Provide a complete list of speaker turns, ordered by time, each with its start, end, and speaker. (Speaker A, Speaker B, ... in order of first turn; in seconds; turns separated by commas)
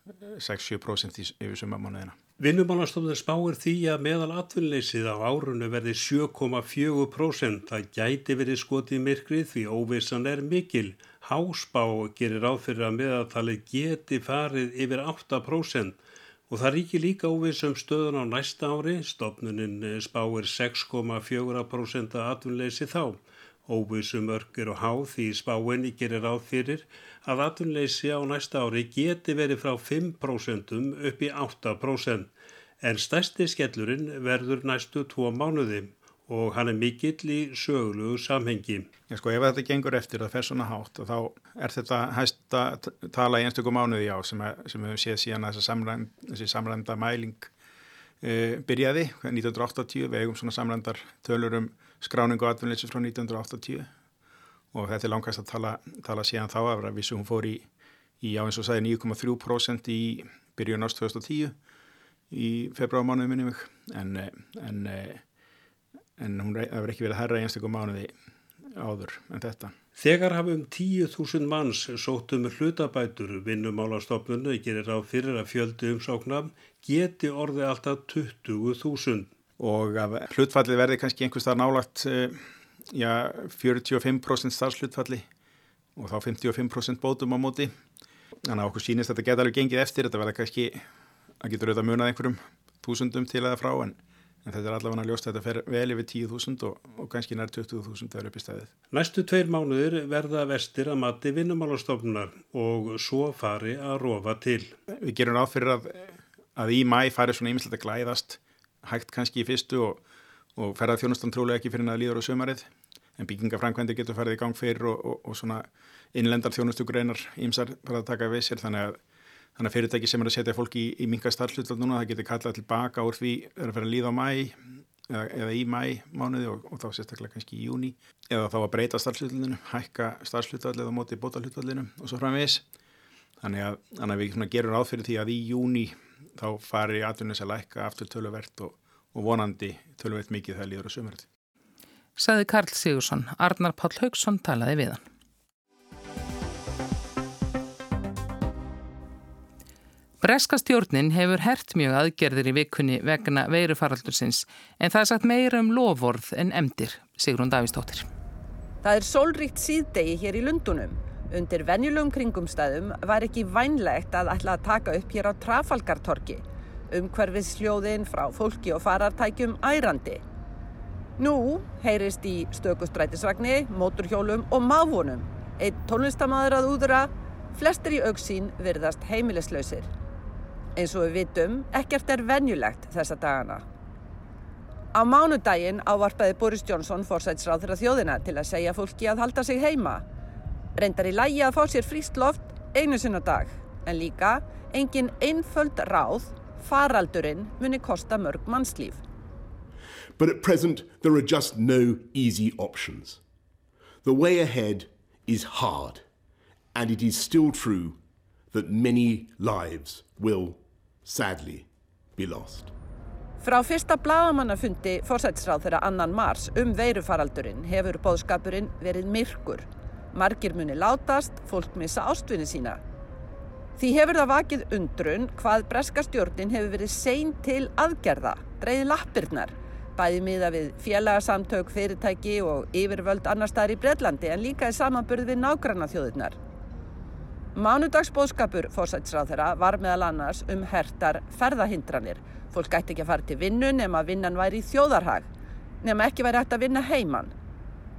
Speaker A: 0.2-2.1, Speaker B: 2.4-16.0, Speaker B: 16.5-38.9, Speaker A: 39.1-47.5, Speaker A: 48.2-53.9, Speaker A: 54.7-57.7, Speaker A: 58.2-61.5, Speaker A: 62.3-65.2, Speaker A: 66.2-68.1, Speaker A: 68.8-69.7, Speaker B: 70.0-79.3, Speaker A: 79.6-82.4, Speaker A: 82.9-85.3, Speaker A: 86.0-87.7, Speaker A: 88.5-90.8, Speaker A: 91.4-98.7, Speaker B: 98.9-104.7, Speaker A: 105.0-110.0, Speaker A: 110.6-119.0, Speaker A: 119.6-132.6, Speaker A: 133.4-141.3, Speaker C: 142.2-145.1, Speaker C: 150.2-158.1, Speaker D: 158.8-170.2, Speaker D: 171.2-179.9, Speaker D: 180.8-183.6, Speaker D: 184.9-190.0, Speaker D: 190.8-199.0, Speaker E: 200.2-203.2, Speaker E: 204.0-206.1, Speaker E: 206.7-208.0, Speaker E: 208.5-212.7, Speaker D: 213.4-222.8, Speaker D: 223.8-236.4, Speaker D: 237.6-245.3, Speaker D: 245.8-247.3